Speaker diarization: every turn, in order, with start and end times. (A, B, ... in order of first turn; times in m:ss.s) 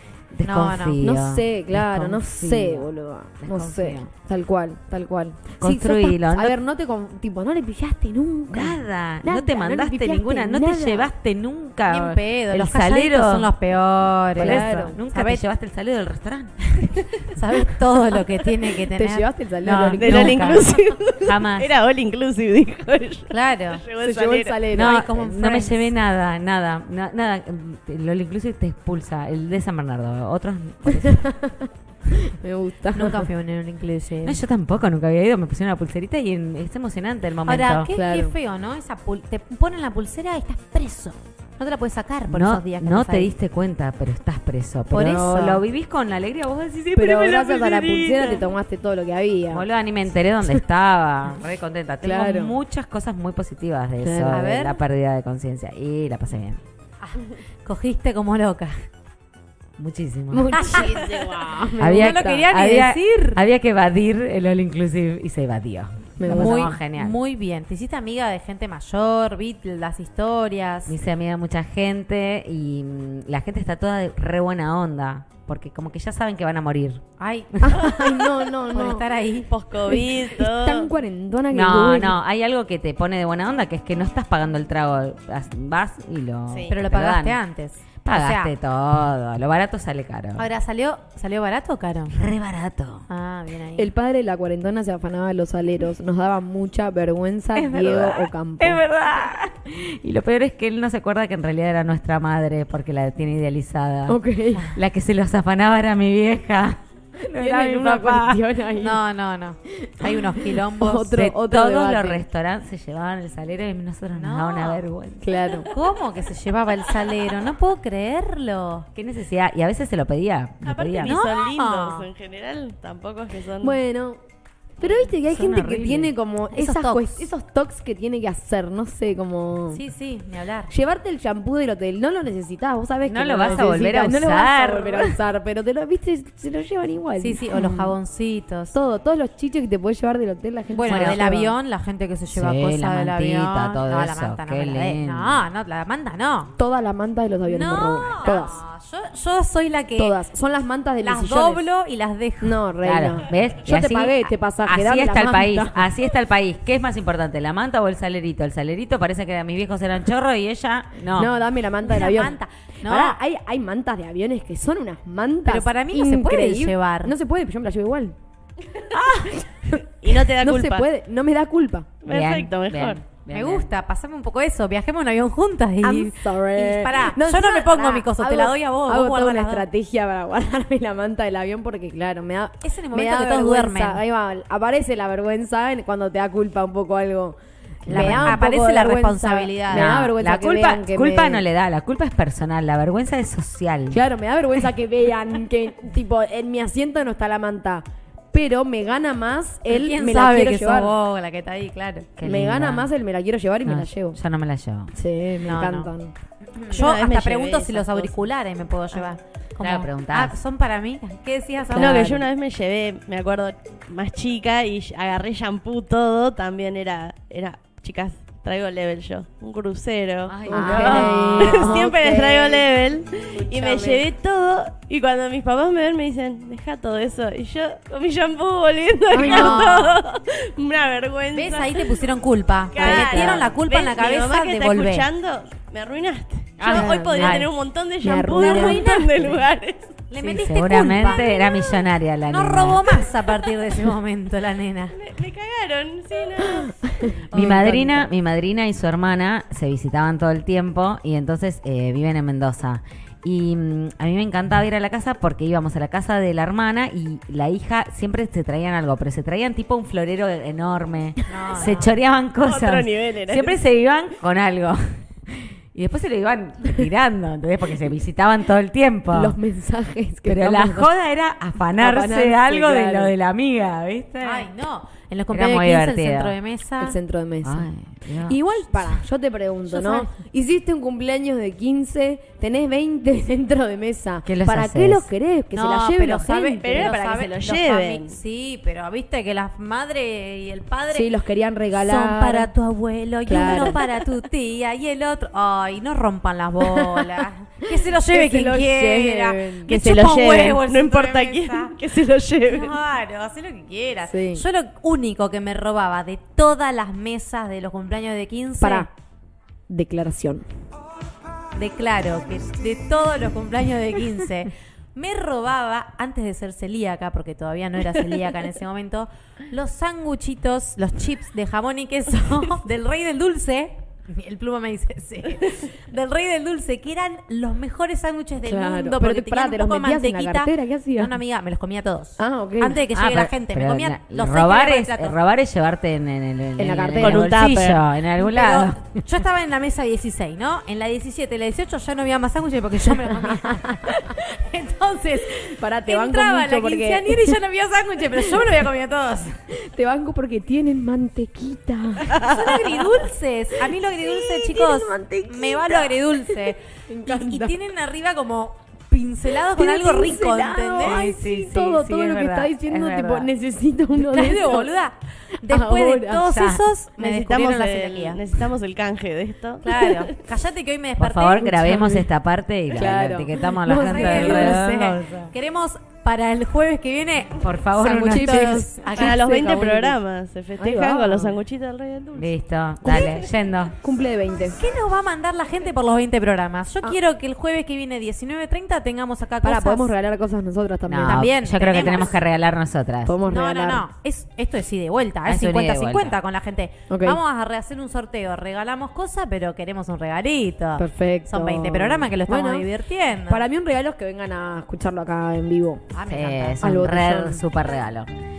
0:00.3-0:02.9 A
0:00.4-0:01.0 B
0:01.0-0:11.1 C
0:03.4-0:04.1 A
0:05.6-0:06.6 A
0:08.5-0:13.5 A
0:11.9-0:15.4 B
0:14.4-0:15.0 C
0:14.4-0:16.6 A
0:16.8-0:19.3 B
0:18.9-0:20.8 C
0:19.6-0:20.7 A
0:20.0-0:24.6 D
0:21.2-0:21.7 A
0:23.3-0:23.8 B
0:24.0-0:25.0 C
0:24.7-0:31.3 A
0:24.8-0:25.9 B
0:30.9-0:33.3 C
0:32.9-0:34.4 B
0:34.2-0:37.9 A
0:37.4-0:43.3 B
0:37.9-0:38.3 C
0:42.3-0:48.5 A
0:44.9-0:45.6 B
0:47.0-0:49.6 C
0:49.5-0:56.6 A
0:52.0-0:52.6 C
0:54.0-0:54.4 C
0:54.3-0:54.8 B
0:57.0-0:58.8 B
0:59.8-1:00.6 A
1:00.3-1:02.2 C
1:00.5-1:03.4 B
1:00.7-1:01.6 D
1:01.8-1:07.2 A
1:06.2-1:06.8 C
1:06.3-1:10.9 B
1:10.9-1:17.0 A
1:17.2-1:19.5 B
1:17.6-1:19.0 C
1:19.5-1:20.9 D
1:19.9-1:22.2 C
1:21.5-1:27.4 A
1:26.7-1:28.5 B
1:28.0-1:30.5 A
1:30.4-1:32.2 B
1:32.1-1:33.1 A
1:33.1-1:33.9 B
1:33.8-1:38.8 C
1:37.6-1:46.8 A
1:44.1-1:44.7 C
1:47.2-1:49.0 C
1:47.3-1:48.4 A
1:48.8-1:51.2 B
1:49.8-1:52.2 C
1:51.2-1:55.3 A
1:54.1-1:54.8 B
1:55.2-1:55.7 C
1:55.7-1:58.9 B
1:58.9-2:01.2 A
2:00.6-2:03.8 D
2:01.0-2:02.1 B
2:03.6-2:04.2 C
2:04.8-2:09.8 C
2:05.1-2:06.1 A
2:06.5-2:07.3 B
2:09.7-2:10.7 B
2:10.7-2:17.9 C
2:13.0-2:15.2 A
2:17.2-2:18.8 B
2:18.7-2:21.5 C
2:20.7-2:26.5 B
2:20.9-2:21.2 A
2:22.3-2:25.4 A
2:26.6-2:28.6 C
2:27.4-2:30.2 B
2:30.0-2:31.6 C
2:31.0-2:32.6 B
2:32.4-2:35.9 C
2:32.8-2:41.3 A
2:41.2-2:48.2 C
2:41.8-2:43.2 B
2:45.4-2:47.1 B
2:48.9-2:51.9 C
2:48.9-2:49.2 D
2:50.0-2:50.9 D
2:52.0-2:53.0 D
2:52.1-2:53.7 A
2:53.3-2:59.6 B
2:55.8-3:11.4 C
3:02.6-3:04.0 B
3:07.9-3:08.4 A
3:07.9-3:10.0 B
3:09.7-3:14.0 A
3:13.9-3:20.9 C
3:19.7-3:22.1 B
3:22.2-3:22.9 A
3:22.2-3:24.2 C
3:23.6-3:24.9 A
3:24.9-3:26.1 C
3:25.4-3:25.9 B
3:26.6-3:32.1 B
3:26.7-3:28.1 D
3:29.6-3:30.4 A
3:31.7-3:52.0 D
3:31.7-3:32.2 C
3:40.3-3:41.8 A
3:40.5-3:42.7 C
3:40.5-3:41.8 B
3:43.6-3:44.0 B
3:43.6-3:44.0 C
3:49.1-3:49.9 C
3:49.2-3:50.0 B
3:51.3-3:55.1 B
3:52.7-3:59.9 D
3:52.8-3:53.5 C
3:56.6-3:57.5 A
3:56.6-3:57.5 B
3:56.7-3:57.4 C
3:58.0-3:58.9 C
3:58.2-3:59.4 B
4:00.1-4:01.4 B
4:00.2-4:02.8 A
4:01.1-4:01.7 D
4:02.2-4:05.0 B
4:02.9-4:03.6 D
4:04.9-4:07.2 D
4:06.5-4:08.0 C
4:07.3-4:08.0 B
4:07.3-4:29.4 A
4:21.3-4:21.9 B
4:22.4-4:23.6 D
4:29.1-4:30.9 C
4:30.3-4:34.5 A
4:31.8-4:33.1 C
4:34.2-4:37.0 B
4:35.3-4:36.4 A
4:36.8-4:37.6 C
4:37.4-4:38.4 A
4:38.2-4:46.9 C
4:39.7-4:40.1 B
4:44.2-4:45.1 A
4:45.5-4:51.1 B
4:46.6-4:48.1 D
4:50.9-4:52.5 C
4:51.7-5:01.8 B
4:53.3-4:53.8 C
4:56.6-4:57.1 C
4:57.6-4:59.7 C
4:59.7-5:02.8 D
5:02.4-5:08.9 B
5:04.1-5:04.4 C
5:08.6-5:08.9 C
5:09.7-5:10.4 C
5:11.6-5:35.2 B
5:28.4-5:31.1 C
5:32.2-5:32.8 C
5:32.9-5:39.0 A
5:36.6-5:37.3 C
5:37.0-5:37.8 D
5:38.2-5:49.4 B
5:43.3-5:44.0 C
5:45.4-5:47.4 C
5:49.6-5:52.8 C
5:52.1-5:52.5 D
5:52.1-6:01.1 B
5:53.8-5:57.6 C
5:59.5-6:04.7 C
6:00.8-6:03.3 A
6:03.9-6:08.4 B
6:05.5-6:06.6 C
6:07.0-6:10.1 D
6:09.6-6:12.0 B
6:11.0-6:15.3 A
6:11.6-6:12.0 C
6:12.7-6:14.6 C
6:13.8-6:19.9 B
6:17.4-6:18.7 A
6:17.8-6:19.9 C
6:18.9-6:22.4 D
6:20.6-6:21.4 C
6:22.1-6:23.8 A
6:22.9-6:23.2 D
6:23.8-6:24.6 C
6:24.6-6:29.9 B
6:29.4-6:31.2 C
6:30.9-6:33.2 A
6:31.0-6:32.2 B
6:33.0-6:33.8 C
6:33.2-6:43.4 B
6:35.2-6:36.2 A
6:36.9-6:37.2 C
6:40.8-6:42.7 C
6:43.3-6:45.8 C
6:45.9-6:46.6 B
6:46.1-6:48.1 A
6:46.6-6:47.4 C